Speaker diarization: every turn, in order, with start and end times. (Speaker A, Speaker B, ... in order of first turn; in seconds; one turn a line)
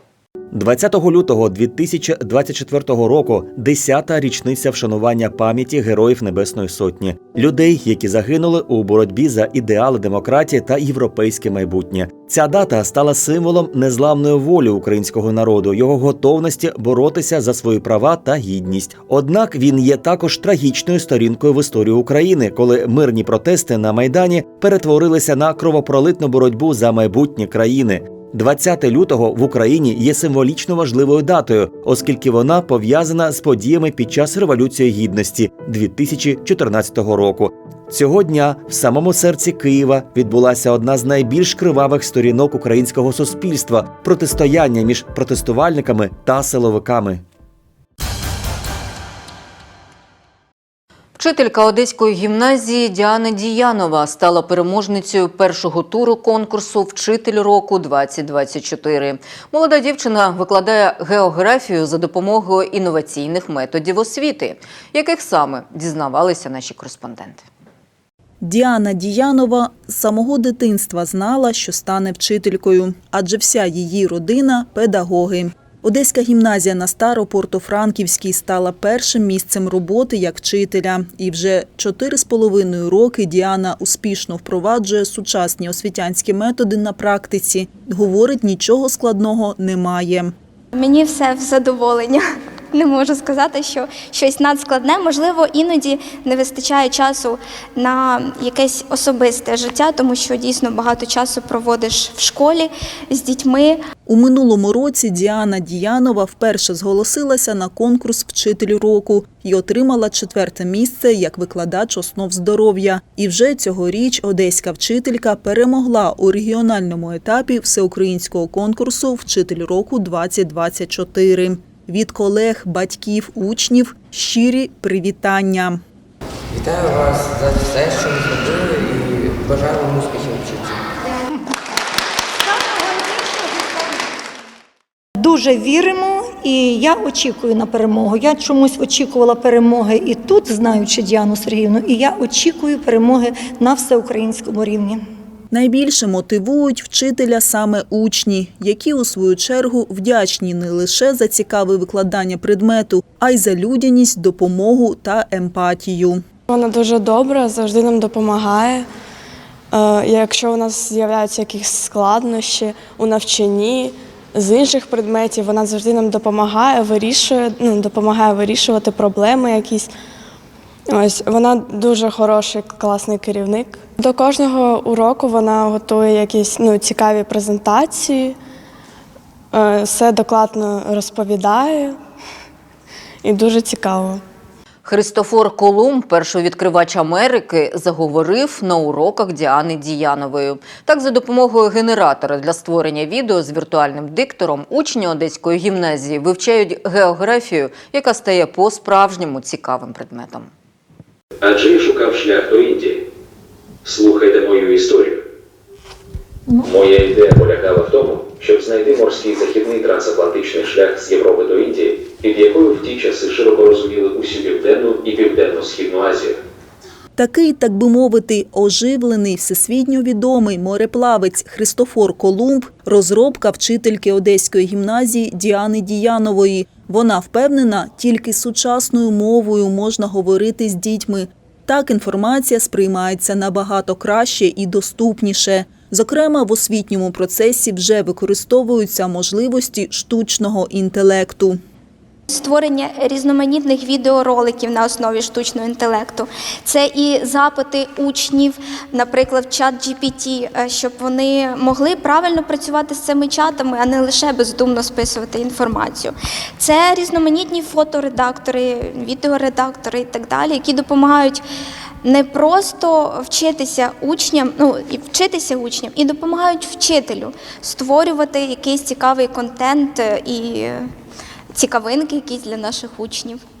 Speaker A: 0.5-47.2
Speaker B: 51.1-67.5
Speaker C: 68.4-90.3
Speaker D: 90.7-103.8
Speaker C: 104.0-125.8
Speaker E: 126.5-130.8
Speaker F: 135.2-145.0
Speaker C: 145.5-156.2
Speaker G: 156.5-158.9
Speaker G: 159.7-169.9
Speaker G: 170.9-178.4
Speaker G: 179.5-182.0
Speaker G: 183.2-184.2
Speaker B: 184.8-200.5
Speaker H: 201.4-203.0
Speaker H: 203.8-205.2
Speaker H: 206.6-216.4
Speaker C: 217.2-241.6
Speaker D: 242.3-261.4
Speaker D: 262.0-270.9
Speaker D: 271.5-273.4